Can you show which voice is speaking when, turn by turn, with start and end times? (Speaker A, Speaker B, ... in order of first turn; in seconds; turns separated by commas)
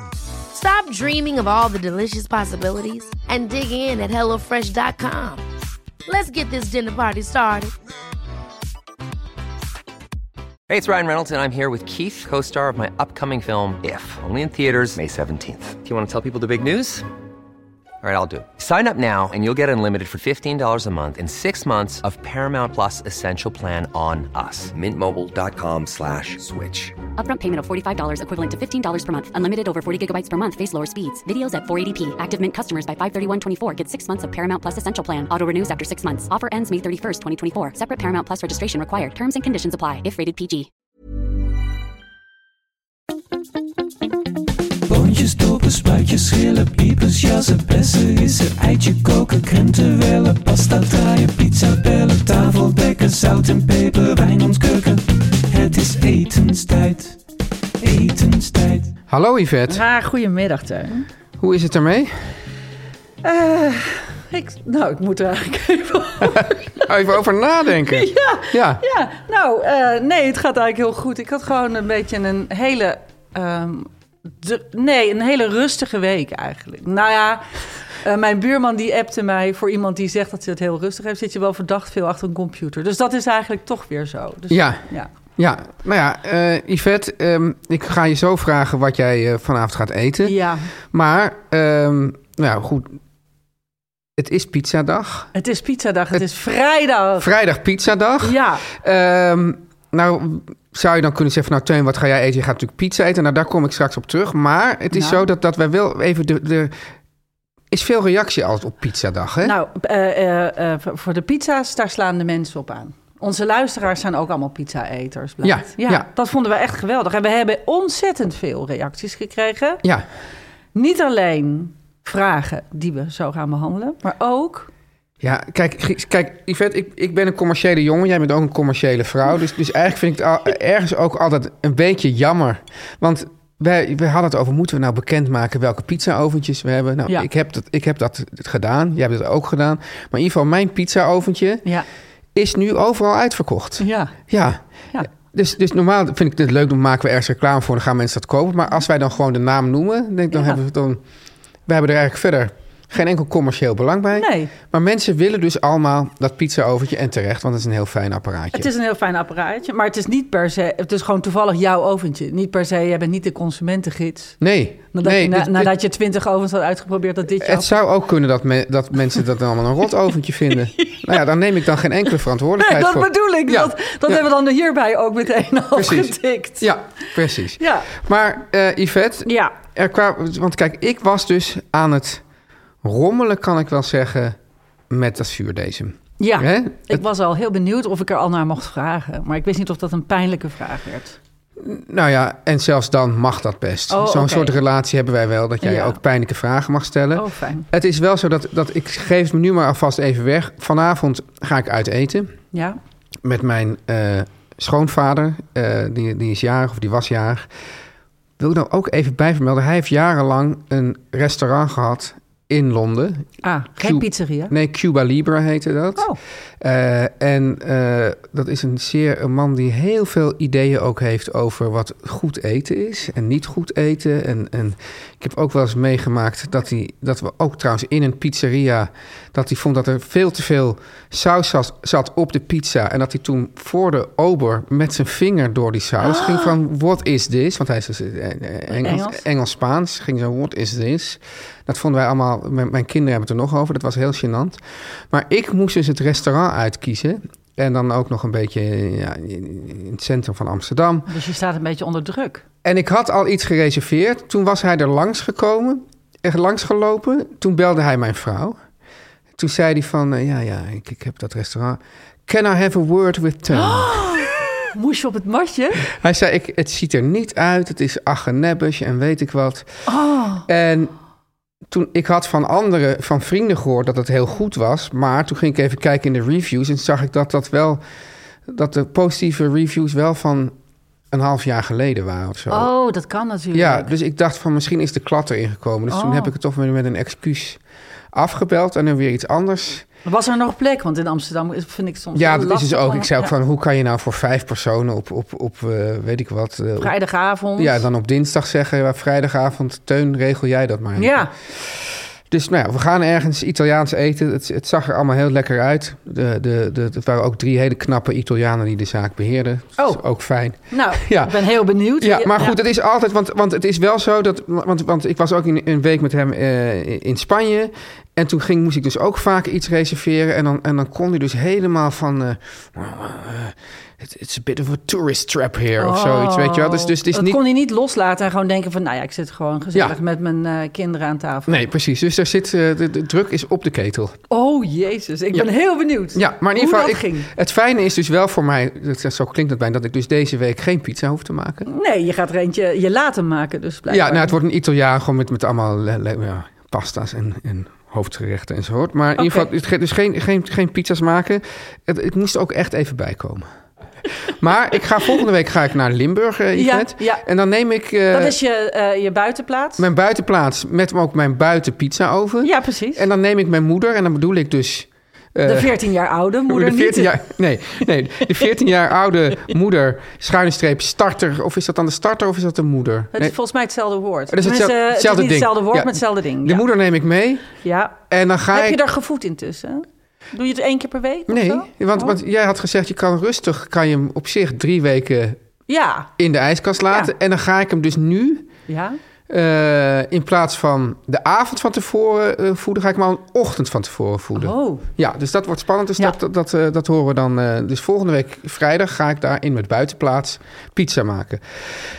Speaker A: 0.5-5.5, Speaker A: 6.1-7.7, Speaker B: 10.7-17.1, Speaker B: 18.0-27.0, Speaker C: 27.2-40.7, Speaker D: 44.9-57.2, Speaker D: 57.8-58.9, Speaker E: 59.1-59.8, Speaker F: 59.7-61.1, Speaker E: 61.4-62.1, Speaker F: 63.2-66.9, Speaker E: 66.3-68.8, Speaker F: 67.9-85.1, Speaker E: 84.5-84.8, Speaker E: 85.4-90.4, Speaker F: 90.2-90.7, Speaker E: 90.9-93.0, Speaker E: 94.2-95.3, Speaker F: 95.3-97.3, Speaker E: 97.2-106.7, Speaker F: 98.2-98.7, Speaker F: 104.9-105.3, Speaker E: 107.7-109.5, Speaker F: 109.4-119.8, Speaker E: 115.4-116.1, Speaker F: 120.7-124.7, Speaker E: 125.2-141.7, Speaker E: 142.3-144.6, Speaker F: 143.8-144.2, Speaker E: 145.1-151.0, Speaker F: 150.3-150.6, Speaker E: 151.7-158.7, Speaker F: 154.1-154.5, Speaker F: 158.5-164.4, Speaker E: 164.4-165.7, Speaker F: 164.9-167.8, Speaker E: 167.4-174.2, Speaker F: 170.8-171.2, Speaker F: 172.6-176.7, Speaker E: 175.7-182.2, Speaker F: 177.6-177.9, Speaker F: 179.2-179.6, Speaker E: 182.8-184.4, Speaker E: 184.9-187.0, Speaker F: 186.2-191.2, Speaker E: 191.6-202.3, Speaker F: 193.9-194.6, Speaker F: 195.6-196.0, Speaker F: 197.2-197.7, Speaker F: 202.5-202.8, Speaker E: 203.2-207.5, Speaker E: 208.4-213.3, Speaker F: 213.4-214.5, Speaker E: 213.8-216.1, Speaker E: 216.6-244.6, Speaker F: 236.0-236.6, Speaker F: 238.7-239.2, Speaker E: 245.1-251.1, Speaker F: 251.1-252.4, Speaker E: 252.6-258.6, Speaker E: 259.4-264.2, Speaker F: 263.5-265.9, Speaker E: 265.9-269.7, Speaker F: 269.9-270.5, Speaker E: 270.5-270.9, Speaker E: 271.7-277.8, Speaker E: 278.5-280.5, Speaker E: 281.1-282.7, Speaker F: 282.5-283.9, Speaker E: 283.5-287.6, Speaker F: 285.9-286.3, Speaker E: 288.1-289.9, Speaker F: 290.1-293.3, Speaker E: 292.1-296.9, Speaker F: 296.8-297.9, Speaker E: 297.6-311.5, Speaker F: 301.0-301.3, Speaker F: 309.8-310.0, Speaker F: 310.7-312.6, Speaker E: 312.0-327.4, Speaker F: 325.8-331.6, Speaker E: 331.5-334.2, Speaker F: 334.3-337.3, Speaker E: 336.1-341.7, Speaker F: 341.7-344.4, Speaker E: 343.9-353.5, Speaker F: 349.2-349.5, Speaker E: 354.4-358.4, Speaker F: 356.5-357.2, Speaker F: 358.1-359.9, Speaker E: 359.8-365.7, Speaker F: 362.4-363.1, Speaker F: 365.4-367.2, Speaker E: 366.5-373.3, Speaker F: 373.1-376.6, Speaker E: 374.3-377.5, Speaker F: 377.6-378.0, Speaker E: 378.1-378.8, Speaker F: 378.5-382.2, Speaker E: 381.3-385.4, Speaker F: 385.7-386.1, Speaker E: 386.2-388.5, Speaker F: 386.9-387.1, Speaker F: 388.7-389.0, Speaker E: 389.3-401.4, Speaker F: 394.4-394.9